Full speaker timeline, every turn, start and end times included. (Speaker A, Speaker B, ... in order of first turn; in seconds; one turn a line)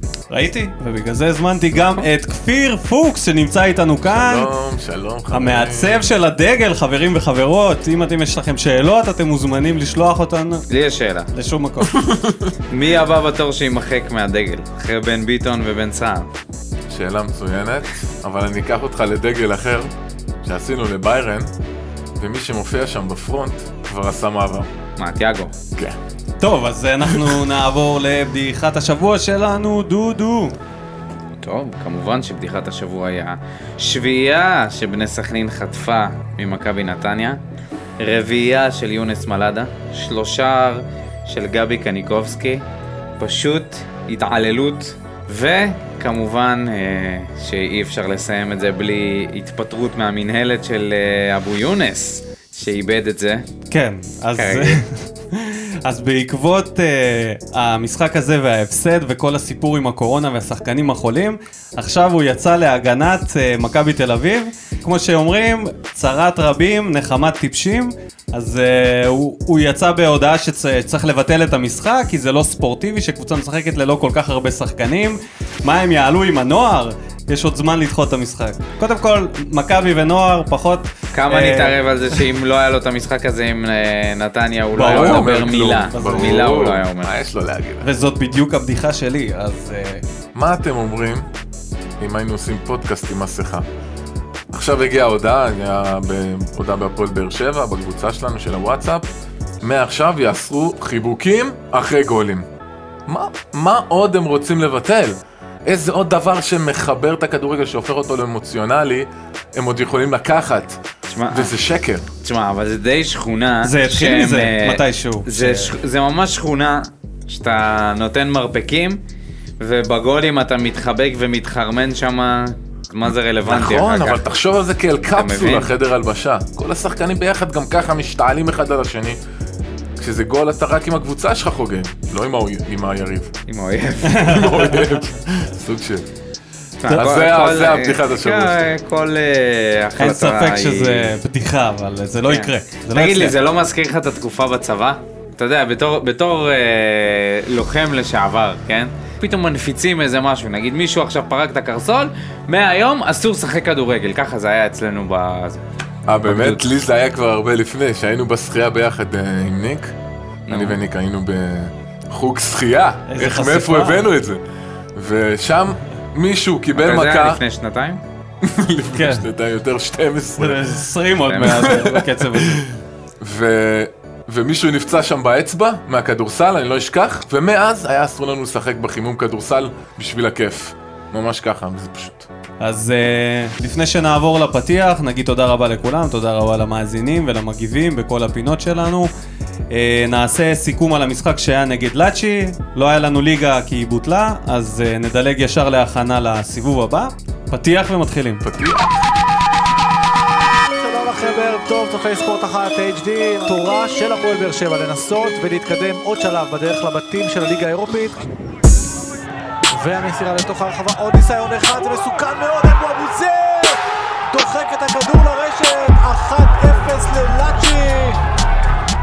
Speaker A: 0.3-4.5
Speaker B: 4.1-6.1
Speaker A: 5.3-10.7
Speaker C: 10.7-11.3
Speaker A: 11.3-12.0
Speaker B: 11.8-12.6
Speaker C: 12.7-16.3
Speaker B: 16.9-19.9
Speaker B: 20.4-21.5
Speaker B: 22.2-24.7
Speaker C: 25.0-25.5
Speaker A: 26.4-30.6
Speaker B: 27.1-27.4
Speaker C: 31.4-37.4
Speaker C: 38.0-42.6
Speaker C: 43.2-53.5
Speaker A: 53.7-82.2
Speaker C: 54.4-54.8
Speaker C: 81.1-87.1
Speaker A: 84.7-86.5
Speaker B: 84.8-87.9
Speaker A: 87.8-90.0
Speaker B: 90.3-91.3
Speaker B: 92.0-93.7
Speaker B: 94.5-99.1
Speaker B: 99.6-102.5
Speaker B: 103.1-112.1
Speaker C: 111.1-111.6
Speaker C: 112.2-119.0
Speaker A: 113.6-115.7
Speaker C: 119.6-124.2
Speaker B: 123.5-129.2
Speaker C: 125.2-125.7
Speaker B: 130.0-133.3
Speaker C: 133.5-134.8
Speaker A: 134.1-134.8
Speaker B: 134.2-136.1
Speaker C: 136.8-141.1
Speaker B: 136.9-138.7
Speaker A: 140.0-143.4
Speaker C: 142.3-155.6
Speaker B: 156.1-159.9
Speaker C: 156.2-156.6
Speaker C: 160.5-160.8
Speaker B: 160.5-164.4
Speaker A: 163.1-164.1
Speaker B: 164.9-167.4
Speaker C: 166.8-168.0
Speaker B: 168.4-170.8
Speaker A: 168.9-169.3
Speaker A: 170.4-172.6
Speaker C: 171.3-171.7
Speaker B: 171.3-182.3
Speaker A: 182.6-189.1
Speaker A: 189.7-198.4
Speaker B: 198.4-199.2
Speaker D: 200.7-208.2
Speaker D: 209.7-218.2